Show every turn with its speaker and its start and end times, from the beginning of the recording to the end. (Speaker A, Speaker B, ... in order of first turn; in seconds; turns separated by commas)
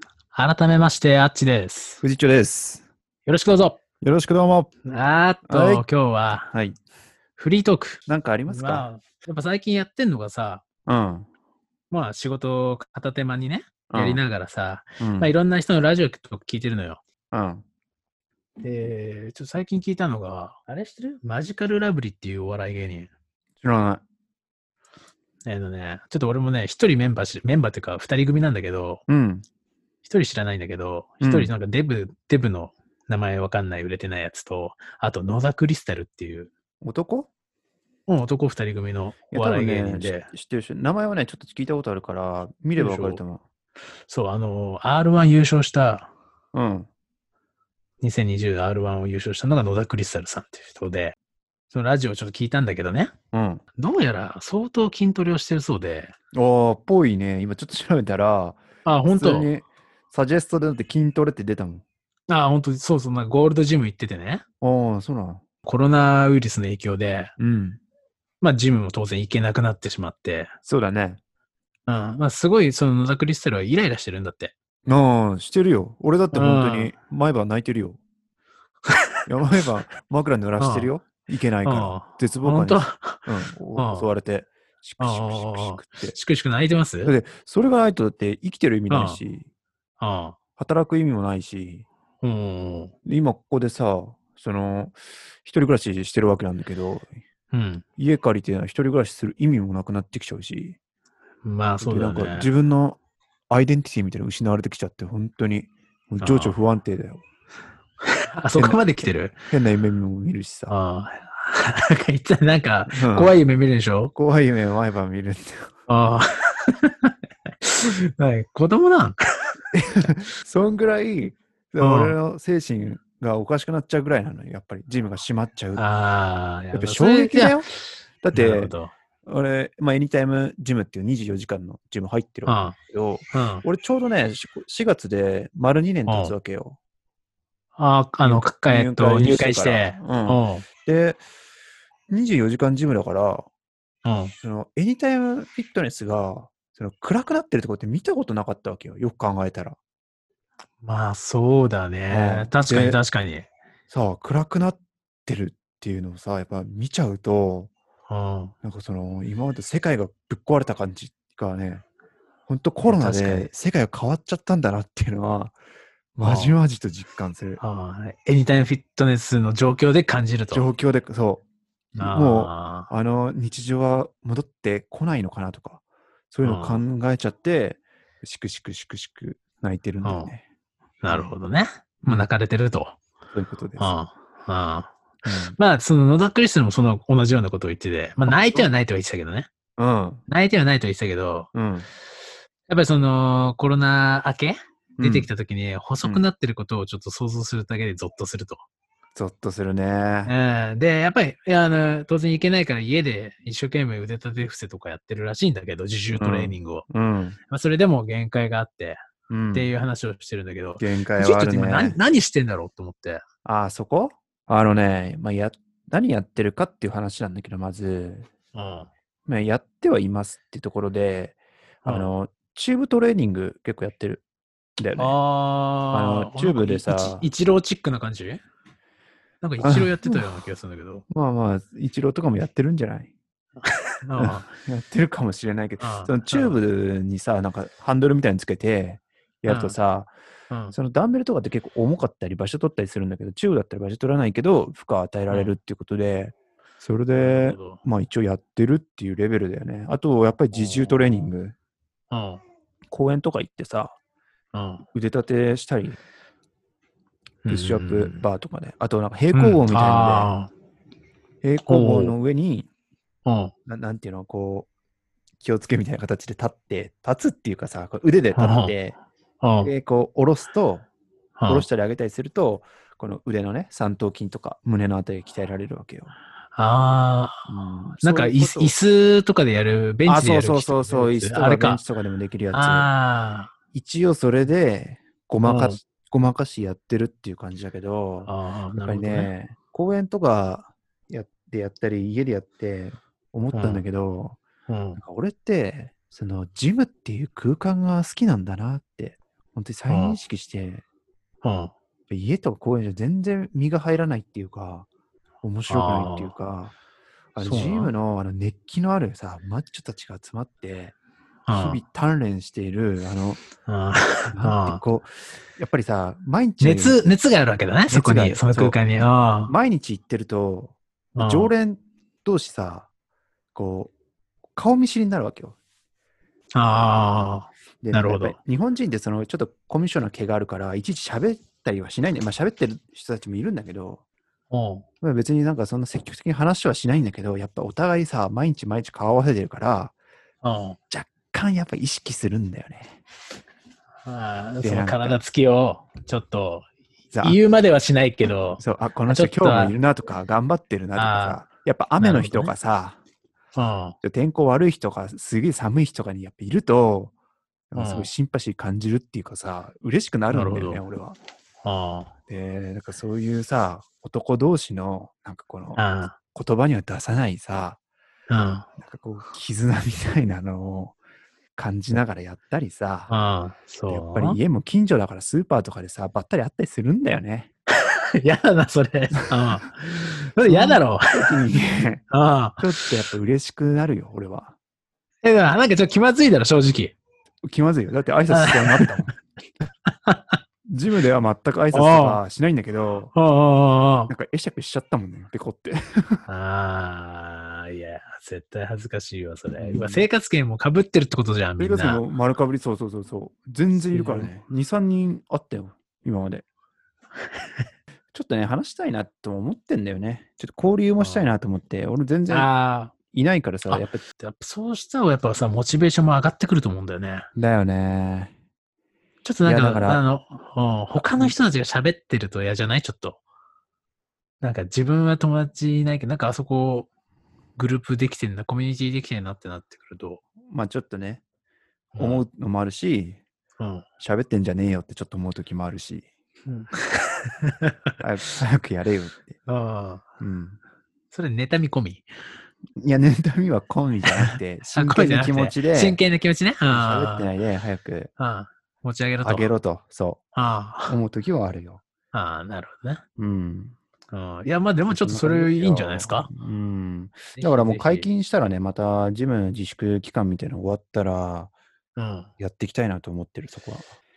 Speaker A: 0.3-2.0, Speaker B: 2.0-2.8, Speaker A: 3.2-3.8, Speaker B: 4.0-4.7, Speaker A: 4.8-6.5, Speaker B: 5.5-5.8, Speaker B: 6.5-6.8, Speaker A: 7.4-10.6, Speaker B: 8.1-8.9, Speaker B: 10.8-11.3, Speaker A: 11.9-17.0, Speaker B: 13.9-14.2, Speaker B: 15.0-15.3, Speaker B: 17.3-17.6, Speaker A: 18.6-23.1, Speaker B: 23.6-24.0, Speaker A: 25.4-29.0, Speaker B: 29.1-29.4, Speaker A: 30.0-36.5, Speaker B: 31.2-31.5, Speaker B: 36.8-37.3, Speaker A: 38.1-40.3, Speaker B: 39.3-43.4, Speaker A: 42.8-43.2, Speaker A: 44.1-46.1, Speaker B: 46.5-46.9, Speaker A: 48.0-51.1, Speaker A: 51.7-53.1, Speaker B: 53.3-53.6, Speaker A: 53.8-56.1, Speaker B: 56.3-61.8, Speaker A: 58.8-59.5, Speaker A: 62.3-64.4, Speaker B: 64.6-65.4, Speaker A: 65.6-67.3, Speaker B: 67.4-67.8, Speaker A: 68.4-70.5, Speaker B: 70.7-71.2, Speaker A: 71.9-74.5, Speaker B: 74.8-78.0, Speaker A: 76.3-76.9, Speaker B: 79.2-86.2, Speaker A: 80.6-80.9, Speaker A: 81.6-84.1, Speaker A: 85.0-87.1, Speaker B: 87.0-89.5, Speaker A: 88.9-89.2, Speaker A: 90.0-90.3, Speaker B: 90.6-91.8, Speaker A: 92.2-92.9, Speaker B: 93.0-97.1, Speaker A: 97.5-97.8, Speaker B: 98.0-100.8, Speaker A: 101.4-102.5, Speaker B: 101.8-103.0, Speaker B: 103.5-107.2, Speaker A: 106.2-106.6, Speaker A: 108.1-109.3, Speaker B: 108.5-110.7, Speaker A: 110.7-114.1, Speaker B: 112.9-113.4, Speaker B: 114.1-115.7, Speaker A: 115.9-119.5, Speaker B: 119.7-125.8, Speaker A: 121.8-122.2, Speaker A: 125.8-127.7, Speaker B: 126.7-127.7, Speaker B: 128.2-136.8, Speaker A: 128.3-128.9, Speaker A: 132.4-132.8, Speaker A: 133.3-133.7, Speaker A: 136.1-136.3, Speaker A: 137.8-140.7, Speaker B: 138.2-141.2, Speaker B: 142.1-143.4, Speaker A: 144.0-144.3, Speaker B: 144.4-149.8, Speaker A: 150.8-153.5, Speaker B: 152.1-153.0, Speaker B: 153.9-157.7, Speaker A: 158.1-158.5, Speaker B: 158.6-161.8, Speaker B: 162.5-165.6, Speaker A: 162.8-163.5, Speaker B: 166.1-167.6, Speaker A: 166.2-166.6, Speaker A: 167.6-170.7, Speaker B: 170.5-180.4, Speaker A: 172.0-172.9, Speaker A: 176.4-176.8, Speaker A: 180.0-180.3, Speaker A: 181.0-183.0, Speaker B: 181.1-181.3, Speaker B: 182.0-182.3, Speaker B: 183.3-183.9, Speaker A: 183.8-185.0, Speaker B: 185.2-185.6, Speaker A: 185.6-189.5, Speaker B: 188.2-188.7, Speaker B: 189.8-190.2, Speaker A: 190.3-191.5, Speaker B: 191.5-191.9, Speaker A: 192.7-198.6, Speaker B: 195.0-195.3, Speaker B: 199.1-200.3, Speaker A: 200.2-206.9, Speaker B: 206.1-207.4, Speaker A: 207.5-213.2, Speaker B: 209.3-209.7, Speaker B: 210.8-212.0, Speaker B: 213.4-218.3, Speaker A: 218.5-218.9, Speaker B: 219.2-224.2, Speaker A: 221.8-222.1, Speaker B: 224.8-225.2, Speaker A: 225.0-228.4, Speaker B: 225.9-227.3, Speaker A: 229.4-231.0, Speaker B: 229.6-230.3, Speaker B: 231.1-233.1, Speaker A: 233.6-234.5, Speaker B: 234.2-240.1, Speaker A: 235.8-236.6, Speaker A: 239.5-239.8, Speaker A: 240.5-240.7, Speaker B: 240.7-251.5, Speaker A: 245.3-245.6, Speaker A: 247.1-247.8, Speaker A: 250.5-251.3, Speaker A: 252.1-252.4, Speaker B: 252.9-254.0, Speaker A: 254.5-254.8, Speaker B: 254.8-256.0, Speaker A: 257.4-258.2, Speaker B: 257.5-260.3, Speaker A: 259.3-260.5, Speaker B: 261.4-262.7, Speaker A: 261.7-262.1, Speaker A: 263.2-263.5, Speaker B: 263.6-264.7, Speaker B: 265.4-269.0, Speaker A: 268.3-268.8, Speaker A: 269.4-269.7, Speaker B: 269.6-270.9, Speaker A: 271.4-271.7, Speaker B: 271.4-276.1, Speaker A: 276.5-277.5, Speaker B: 277.5-278.7, Speaker A: 278.0-281.8, Speaker B: 280.1-282.9, Speaker A: 282.5-283.5, Speaker B: 283.7-294.4, Speaker A: 285.4-285.8, Speaker A: 288.2-289.3, Speaker A: 293.5-293.9, Speaker A: 294.7-295.0, Speaker B: 295.0-300.8, Speaker A: 299.9-300.2, Speaker A: 301.4-301.7, Speaker B: 302.1-304.9, Speaker B: 305.4-306.7, Speaker A: 305.7-306.3, Speaker B: 307.3-310.9, Speaker A: 307.4-307.9, Speaker A: 311.5-311.8, Speaker B: 311.5-313.4, Speaker A: 313.6-314.8, Speaker B: 314.3-317.0, Speaker A: 316.6-319.5, Speaker B: 317.9-318.8, Speaker B: 319.4-322.9, Speaker A: 321.1-321.5, Speaker B: 323.5-323.9, Speaker B: 324.6-325.6, Speaker A: 326.5-328.4, Speaker B: 327.8-334.0, Speaker A: 334.5-334.8, Speaker B: 335.0-339.9, Speaker A: 340.4-340.8, Speaker B: 340.9-343.0, Speaker A: 344.0-346.7, Speaker B: 344.6-345.2, Speaker B: 347.1-347.4, Speaker A: 347.2-349.7, Speaker B: 348.6-353.0, Speaker A: 350.9-351.4, Speaker A: 352.0-352.5, Speaker A: 353.5-353.9, Speaker B: 354.0-357.1, Speaker B: 357.7-361.2, Speaker A: 357.7-358.1, Speaker A: 360.3-360.8, Speaker A: 361.6-362.1, Speaker B: 362.3-367.8, Speaker A: 365.8-366.1, Speaker A: 368.3-368.7, Speaker B: 368.8-370.9, Speaker B: 371.6-373.1, Speaker A: 373.1-374.4, Speaker B: 373.9-377.5, Speaker A: 377.8-381.4, Speaker B: 380.4-382.0, Speaker A: 382.1-382.9, Speaker B: 382.6-384.5, Speaker A: 385.2-386.9, Speaker B: 387.4-389.1, Speaker A: 388.3-389.1, Speaker A: 389.9-390.4, Speaker B: 390.6-393.1, Speaker A: 391.7-392.2, Speaker A: 393.1-394.1, Speaker B: 394.1-396.2, Speaker A: 396.2-402.0, Speaker B: 399.6-400.1, Speaker B: 401.6-406.4, Speaker A: 403.9-404.3, Speaker A: 407.3-407.6, Speaker B: 408.1-412.5, Speaker A: 411.0-411.3, Speaker A: 412.3-412.9, Speaker B: 413.1-414.0, Speaker A: 413.7-417.3, Speaker B: 417.3-418.3, Speaker A: 419.2-423.2, Speaker B: 419.4-420.0, Speaker B: 420.9-421.3, Speaker A: 424.4-426.9, Speaker A: 427.6-430.2, Speaker B: 430.4-431.2, Speaker A: 431.9-432.2, Speaker B: 432.0-433.2, Speaker A: 433.6-433.8, Speaker B: 434.0-436.1, Speaker A: 436.4-437.9, Speaker B: 438.0-439.4, Speaker A: 439.4-440.0, Speaker B: 440.2-440.6, Speaker A: 441.1-442.1, Speaker B: 442.8-446.0, Speaker A: 444.1-447.3, Speaker B: 446.7-448.1, Speaker A: 448.2-449.5, Speaker B: 449.2-450.2, Speaker A: 450.3-451.0, Speaker B: 450.9-451.8, Speaker A: 452.1-453.0, Speaker B: 453.2-453.8, Speaker A: 454.1-456.3, Speaker B: 454.9-461.5, Speaker A: 457.3-458.1, Speaker A: 461.9-462.3, Speaker B: 462.4-463.9